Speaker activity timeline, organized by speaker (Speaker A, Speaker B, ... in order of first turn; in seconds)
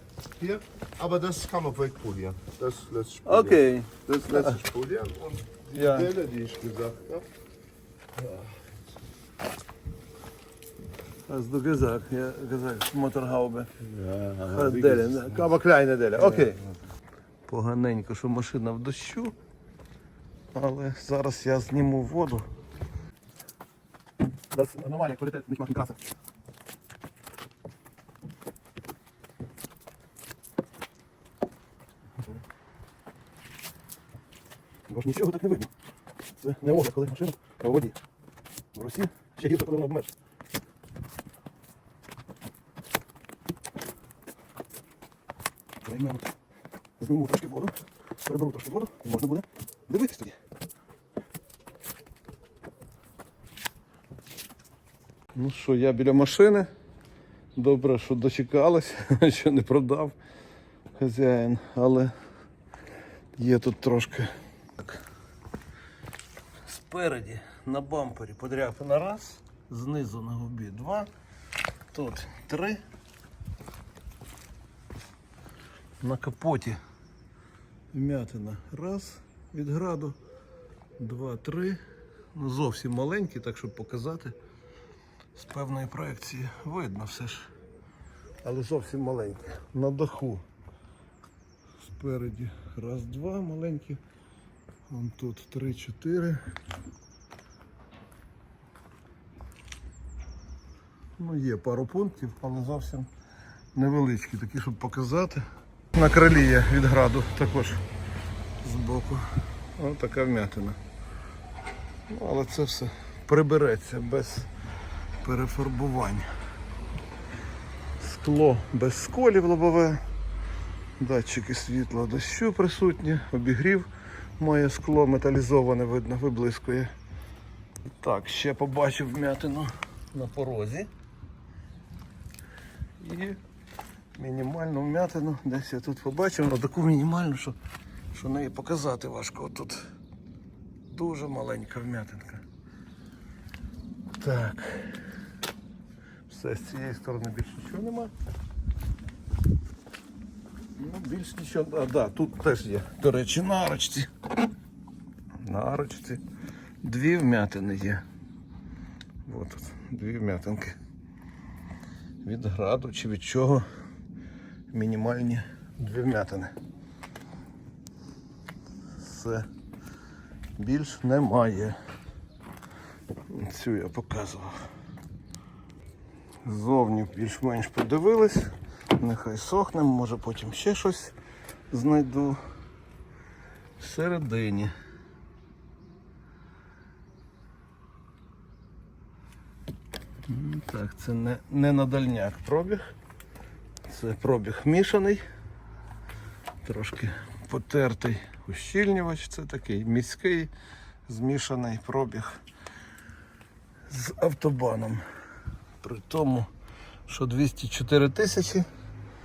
Speaker A: 0.4-7.2, 8.2-8.5, 13.8-15.4, 16.1-16.7
Speaker B: 3.2-4.6, 5.7-6.1, 11.3-13.7, 14.4-16.6, 17.5-19.3, 20.5-22.5, 24.5-26.0, 34.9-35.7, 36.4-38.0, 38.7-40.1, 45.8-46.3, 47.0-50.4, 55.3-56.7, 57.5-60.1, 61.0-62.1, 63.4-65.0, 66.7-71.1, 71.9-72.8, 76.0-76.8, 77.9-80.2, 81.0-81.8, 82.3-84.3, 85.3-87.5, 88.4-90.4, 91.8-94.0, 94.9-96.4, 101.2-103.1, 103.7-107.8, 108.6-110.8, 112.1-114.5, 115.2-116.3, 118.0-120.0, 121.0-123.9, 124.4-126.9, 128.0-130.9, 133.0-133.4, 134.2-137.6, 138.1-139.9, 140.9-142.4, 144.2-145.0, 146.3-148.1, 150.8-154.1, 155.4-156.2, 156.8-158.0, 159.2-160.8, 162.2-163.7, 164.7-166.5, 169.0-169.4, 170.6-171.8, 173.3-174.5, 176.4-181.1, 181.7-182.4, 183.8-184.7, 190.2-192.9, 193.9-195.2, 196.6-200.5, 201.1-202.4, 203.9-205.0, 205.8-206.5, 207.1-208.7